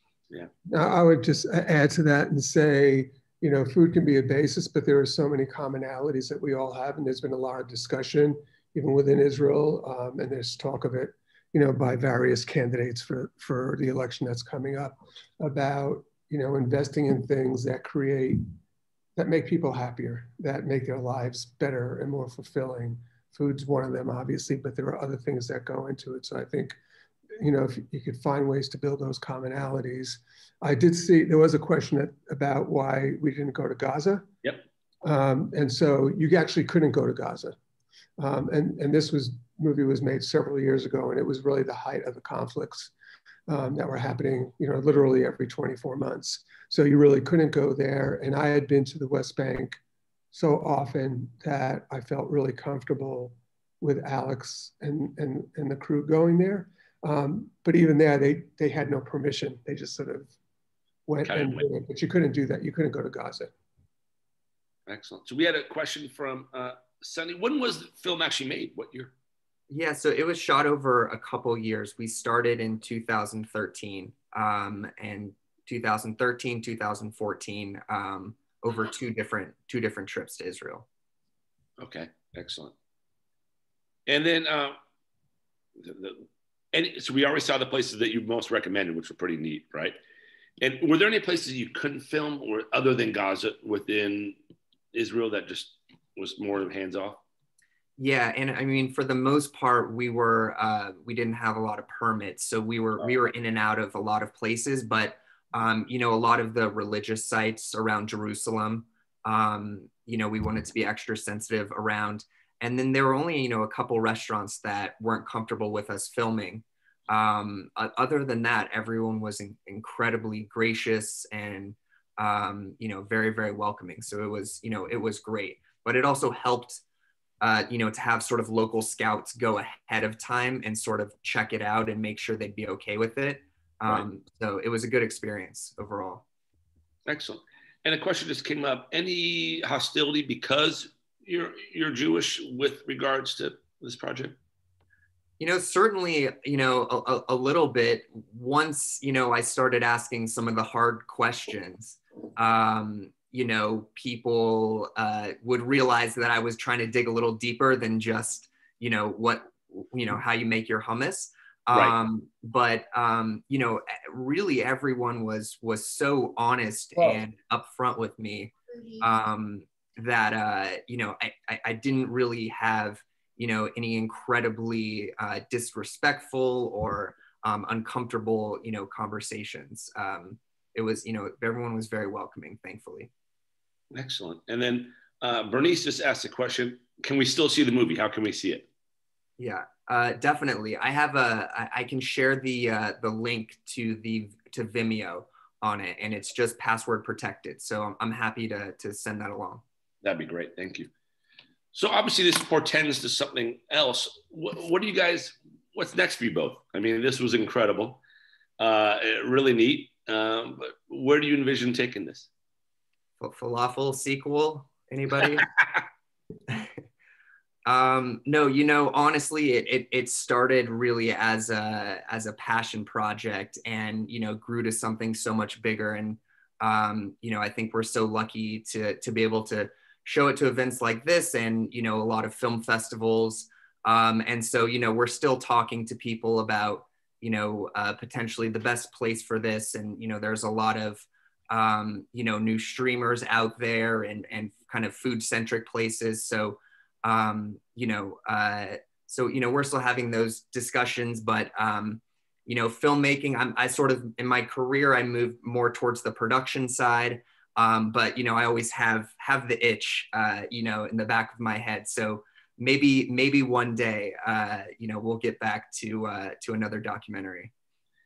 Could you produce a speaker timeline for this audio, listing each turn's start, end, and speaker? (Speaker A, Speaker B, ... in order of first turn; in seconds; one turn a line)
Speaker A: 0.7-18.4
Speaker A: 19.1-26.8
Speaker A: 27.4-34.3
Speaker A: 35.0-37.5
Speaker A: 38.2-42.9
Speaker A: 43.5-49.8
Speaker A: 50.3-60.3
Speaker A: 61.1-63.5
Speaker B: 61.2-61.6
Speaker B: 64.9-69.1
Speaker C: 69.7-80.8
Speaker B: 81.8-82.7
Speaker B: 84.1-84.8
Speaker B: 85.8-90.0
Speaker B: 90.6-94.4
Speaker B: 94.9-97.2
Speaker C: 98.0-126.8
Speaker C: 127.4-136.2
Speaker B: 137.1-144.4
Speaker C: 145.4-183.1
Speaker B: 161.7-162.0
Speaker B: 166.9-167.2
Speaker B: 183.9-188.7
Speaker C: 189.4-199.6
Speaker B: 200.0-200.9
Speaker B: 201.7-208.0
Speaker B: 208.6-212.3
Speaker C: 213.2-215.5
Speaker C: 217.7-267.5